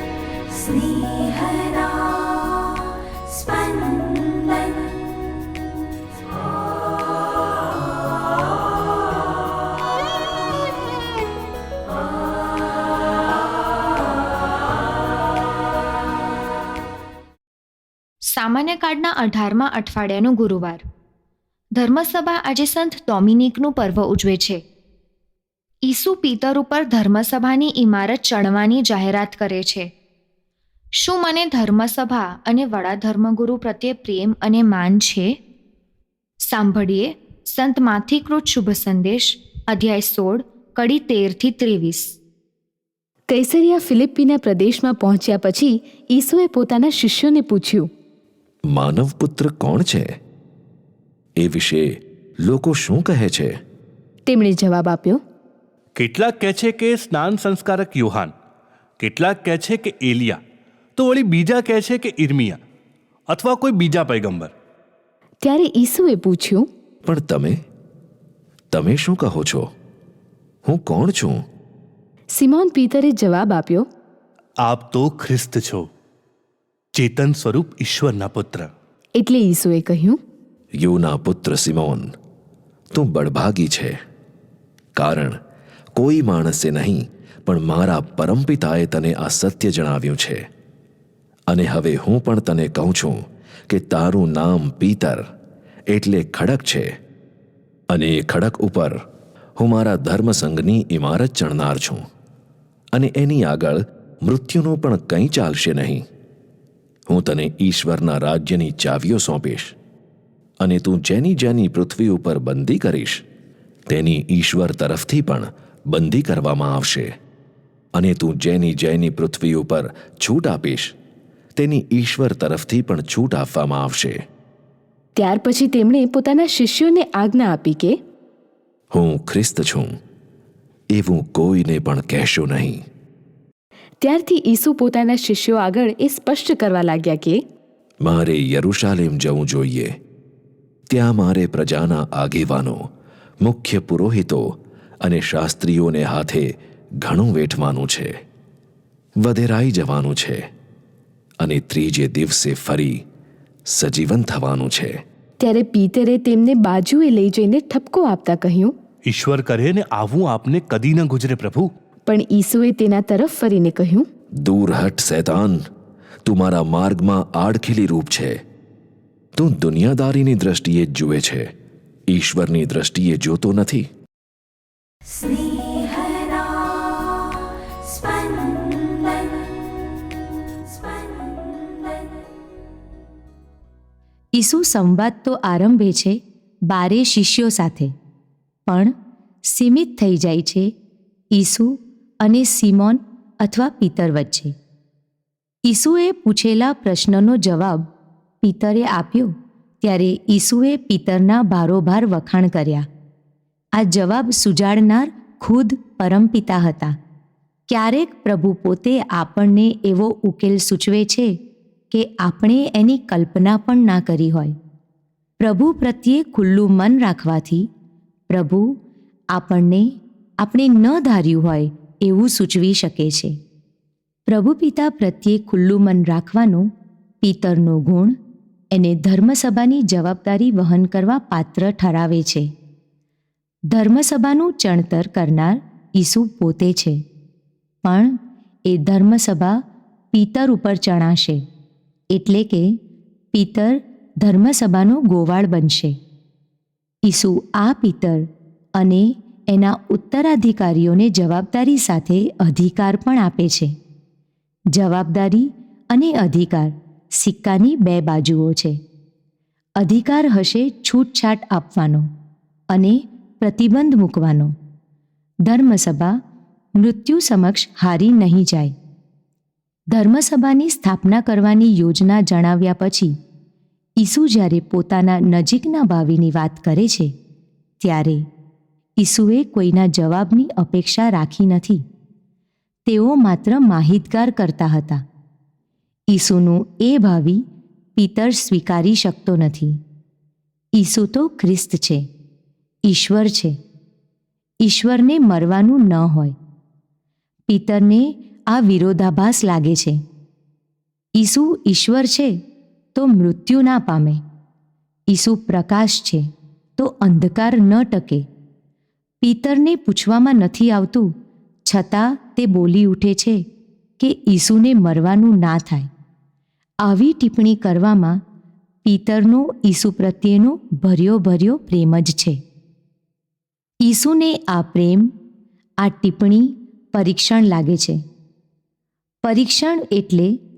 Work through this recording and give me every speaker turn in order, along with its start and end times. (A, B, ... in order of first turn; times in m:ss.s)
0:00.5-0:05.4 A
0:06.9-0:07.4 A
0:18.2-0:20.8 B
0:21.8-0:24.6 B
0:25.8-0:29.9 B
0:31.0-0:35.4 B
0:36.4-0:42.2 B
0:43.3-0:47.9 A
0:48.7-0:50.1 C
0:51.4-0:51.9 C
0:52.4-0:53.6 C
0:54.3-0:55.2 A
0:56.0-0:58.3 D
0:59.0-1:00.4 D
1:01.0-1:02.6 D
1:03.3-1:04.5 D
1:05.4-1:06.7 A
1:07.0-1:07.6 C
1:08.7-1:09.7 C
1:10.6-1:11.4 C
1:12.3-1:13.9 A
1:14.6-1:15.9 D
1:17.0-1:18.7 D
1:19.2-1:20.2 A
1:20.8-1:22.1 C
1:22.9-1:24.0 C
1:25.0-1:25.4 C
1:26.0-1:30.4 C
1:31.5-1:35.2 C
1:35.9-1:36.9 C
1:37.9-1:39.0 C
1:39.6-1:42.0 C
1:42.9-1:46.0 C
1:47.1-1:49.7 C
1:50.6-1:53.2 C
1:53.9-1:57.1 C
1:58.0-2:00.9 C
2:01.6-2:04.2 C
2:05.2-2:08.0 A
2:08.9-2:09.9 C
2:10.9-2:12.8 C
2:14.0-2:17.4 A
2:18.0-2:20.0 C
2:20.9-2:22.9 C
2:23.4-2:28.2 C
2:29.2-2:30.5 C
2:31.4-2:33.0 C
2:33.7-2:35.0 C
2:35.4-2:38.8 A
2:39.1-2:41.7 D
2:42.1-2:44.1 A
2:44.4-2:45.6 C
2:46.3-2:48.4 C
2:49.4-2:51.5 C
2:52.1-2:53.9 C
2:55.1-3:02.2 A
3:04.4-3:07.9 E
3:08.7-3:08.9 E
3:09.4-3:10.7 E
3:11.3-3:14.6 E
3:15.7-3:17.9 E
3:18.4-3:22.9 E
3:23.8-3:27.0 E
3:27.7-3:31.4 E
3:31.9-3:34.6 E
3:35.4-3:37.7 E
3:38.3-3:38.8 E
3:39.3-3:39.9 E
3:40.4-3:43.4 E
3:44.3-3:46.7 E
3:47.2-3:48.2 E
3:48.7-3:52.5 E
3:53.7-3:57.0 E
3:57.8-3:59.6 E
4:00.1-4:01.4 E
4:02.1-4:02.8 E
4:03.3-4:06.0 E
4:07.1-4:13.8 E
4:14.7-4:18.8 E
4:19.8-4:22.1 E
4:22.7-4:24.5 E
4:25.5-4:26.2 E
4:26.8-4:28.8 E
4:29.9-4:33.2 E
4:34.0-4:37.1 E
4:37.8-4:38.3 E
4:39.0-4:41.8 E
4:42.9-4:45.0 E
4:46.1-4:49.8 E
4:50.8-4:52.1 E
4:52.9-4:53.6 E
4:54.6-4:56.4 E
4:57.5-5:00.0 E
5:01.2-5:02.4 E
5:03.0-5:04.2 E
5:05.1-5:08.3 E
5:09.2-5:11.1 E
5:11.7-5:13.4 E
5:14.0-5:15.9 E
5:16.8-5:18.2 E
5:18.8-5:22.4 E
5:23.8-5:25.1 E
5:25.8-5:28.0 E
5:29.2-5:30.4 E